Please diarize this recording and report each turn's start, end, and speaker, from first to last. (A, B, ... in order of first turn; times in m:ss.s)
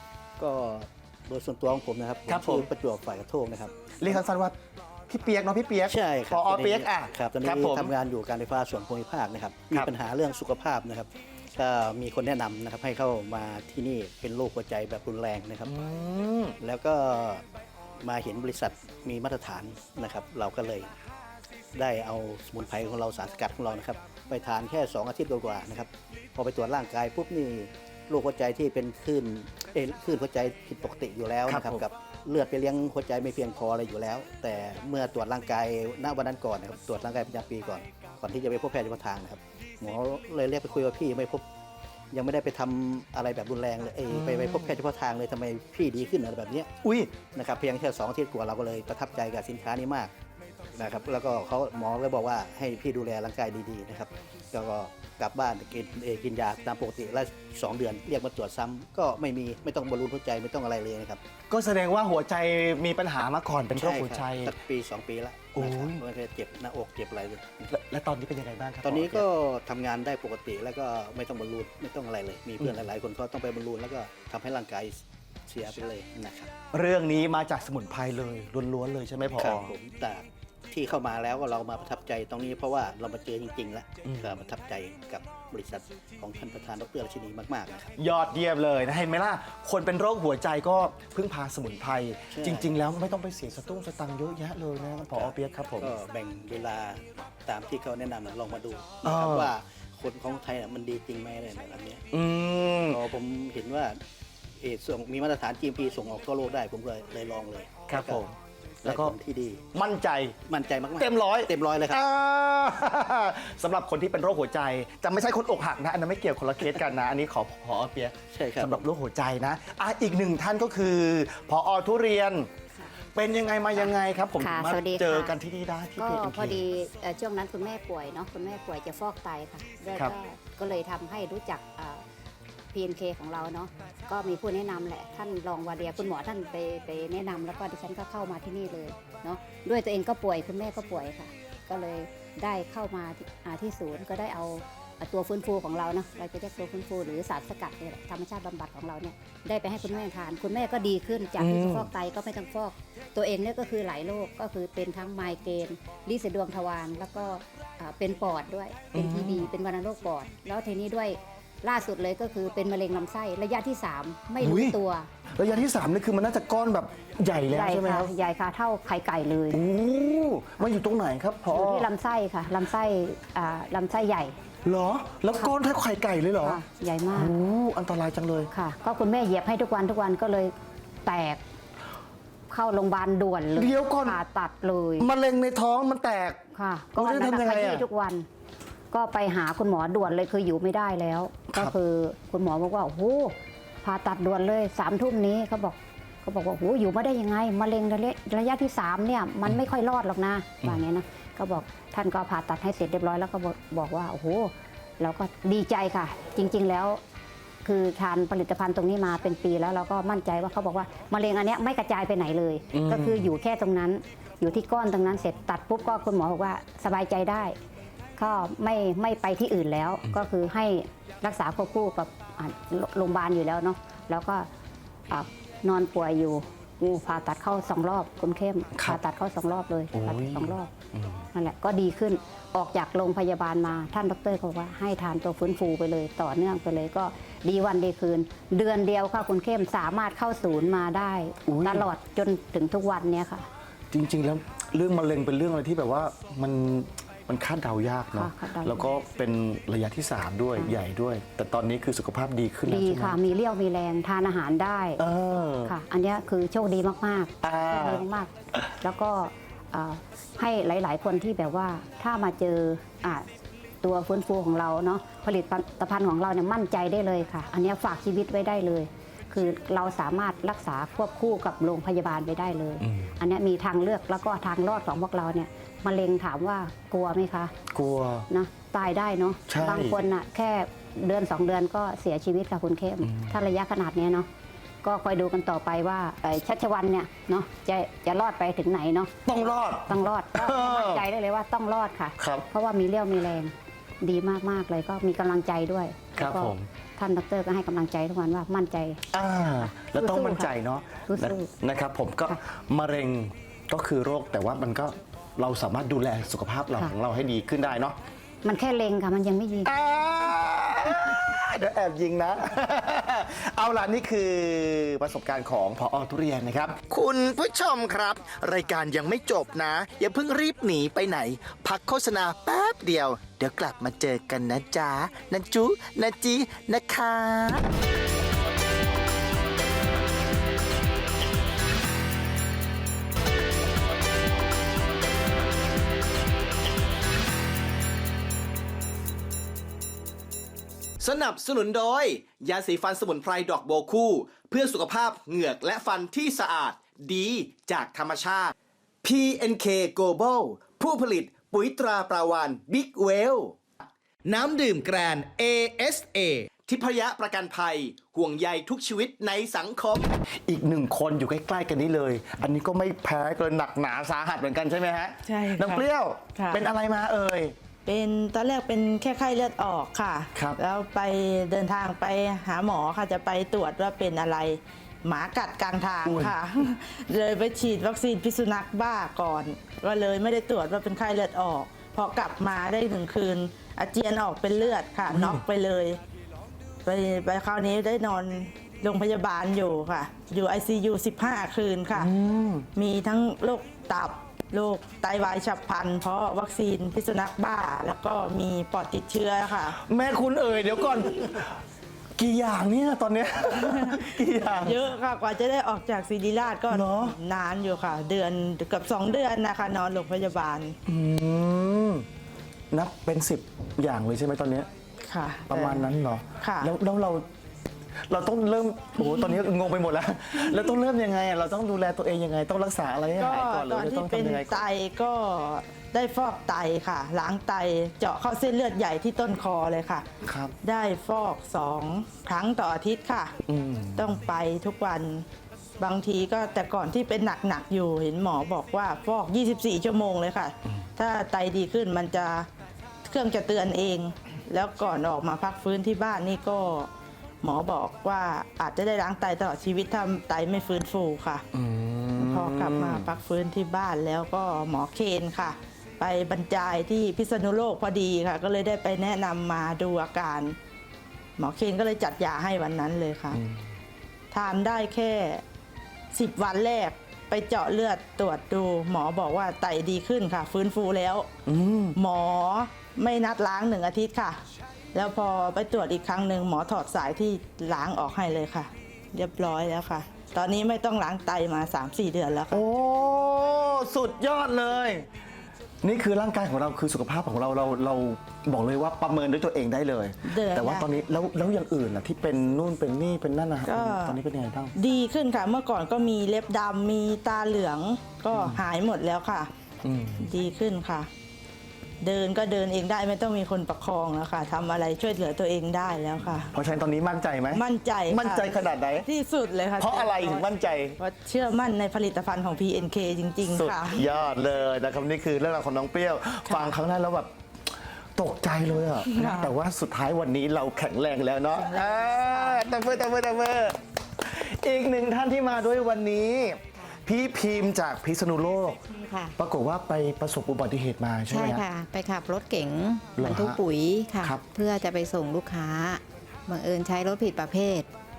0:00.4-0:04.2 A
0:02.3-0:02.7 B
0:04.0-0:04.6 B
0:05.1-0:07.9 B
0:05.9-0:15.7 A
0:15.6-0:16.6 B
0:16.6-0:17.4 A
0:18.0-0:20.9 A
0:21.7-0:41.4 A
0:31.4-0:31.8 B
0:42.1-0:46.7 A
0:44.1-0:44.7 B
0:46.8-0:47.2 B
0:47.2-0:50.1 A
0:50.7-1:01.2 A
1:01.5-1:04.5 B
1:03.8-1:07.6 A
1:05.5-1:06.0 B
1:07.7-1:09.2 B
1:08.8-1:16.5 A
1:16.7-1:19.7 B
1:19.4-1:27.9 A
1:24.0-1:24.3 B
1:28.0-1:35.9 B
1:32.3-1:32.7 A
1:35.1-1:42.0 A
1:39.0-1:39.5 B
1:42.1-1:43.0 B
1:42.9-1:44.0 A
1:44.6-1:48.2 A
1:47.9-1:49.1 B
1:48.8-1:49.6 A
1:49.7-1:50.4 B
1:50.4-1:52.0 A
1:51.0-2:02.5 B
1:58.3-1:58.9 A
2:03.1-2:06.6 B
2:04.4-2:05.4 C
2:06.0-2:12.0 C
2:12.7-2:45.1 C
2:31.4-2:31.9 B
2:38.9-2:39.5 B
2:44.4-2:44.8 B
2:45.3-2:48.1 B
2:47.5-2:49.6 C
2:49.5-2:51.9 B
2:51.5-2:54.4 C
2:54.6-2:56.6 B
2:56.4-2:57.3 C
2:57.1-2:58.5 B
2:58.5-3:00.5 C
3:01.0-3:01.4 C
3:02.5-3:05.1 C
3:03.5-3:04.2 B
3:05.0-3:06.4 B
3:06.5-3:08.2 C
3:07.0-3:07.8 B
3:08.9-3:27.0 C
3:27.6-3:37.6 C
3:32.7-3:33.3 B
3:38.2-3:44.5 C
3:45.1-3:50.7 C
3:48.7-3:49.0 B
3:49.9-3:51.2 B
3:51.3-4:03.5 C
4:01.4-4:01.9 B
4:03.9-4:13.2 B
4:08.1-4:08.9 C
4:12.7-4:15.0 C
4:15.0-4:15.7 B
4:15.6-4:23.2 C
4:17.4-4:18.0 B
4:23.8-4:37.5 C
4:32.8-4:33.1 B
4:37.7-4:38.3 B
4:38.3-4:44.3 C
4:39.5-4:40.0 B
4:43.0-4:43.5 B
4:44.8-4:49.1 C
4:49.2-4:51.0 B
4:49.9-4:59.0 C
4:52.2-4:52.5 B
4:56.2-4:56.7 B
4:59.1-5:08.0 B
4:59.8-5:00.5 C
5:01.1-5:01.5 C
5:08.4-5:09.7 C
5:09.6-5:27.6 B
5:41.0-5:53.6 B
5:54.2-6:07.5 B
6:05.2-6:06.7 D
6:07.8-6:26.0 D
6:10.3-6:10.6 B
6:16.0-6:16.3 B
6:25.1-6:25.4 B
6:26.8-6:32.1 D
6:31.9-6:32.7 B
6:32.8-6:39.8 D
6:39.8-6:41.6 B
6:42.2-6:44.8 B
6:43.6-6:50.8 D
6:46.7-6:47.2 B
6:50.8-6:52.0 B
6:52.7-6:54.7 B
6:55.0-6:56.7 D
6:55.5-6:57.2 B
6:58.0-7:04.6 B
6:59.0-6:59.4 D
7:03.2-7:10.0 D
7:10.2-7:10.5 B
7:10.6-7:13.3 D
7:13.4-7:14.2 B
7:14.0-7:15.2 D
7:15.8-7:22.5 D
7:23.0-7:26.9 D
7:27.4-7:31.4 D
7:31.5-7:33.1 B
7:32.2-7:40.6 D
7:41.4-7:43.4 D
7:43.3-7:43.6 B
7:44.3-7:45.4 D
7:46.1-7:51.3 D
7:51.4-7:52.0 B
7:51.9-7:54.4 D
7:54.9-8:02.6 D
8:02.5-8:05.1 B
8:05.8-8:14.7 B
8:10.2-8:10.9 D
8:13.6-8:14.2 D
8:14.7-8:19.5 D
8:18.3-8:18.6 B
8:19.8-8:20.3 B
8:20.2-8:21.1 D
8:22.0-8:26.5 D
8:26.5-8:29.1 B
8:27.5-8:30.5 D
8:29.8-8:31.0 B
8:31.0-8:34.0 D
8:33.5-8:37.3 B
8:36.5-8:36.7 D
8:38.2-8:48.8 B
8:39.0-8:39.6 D
8:41.9-8:42.2 D
8:42.4-8:42.7 E
8:48.9-8:49.3 E
8:49.4-8:51.6 B
8:51.3-8:57.9 E
8:53.2-8:53.6 B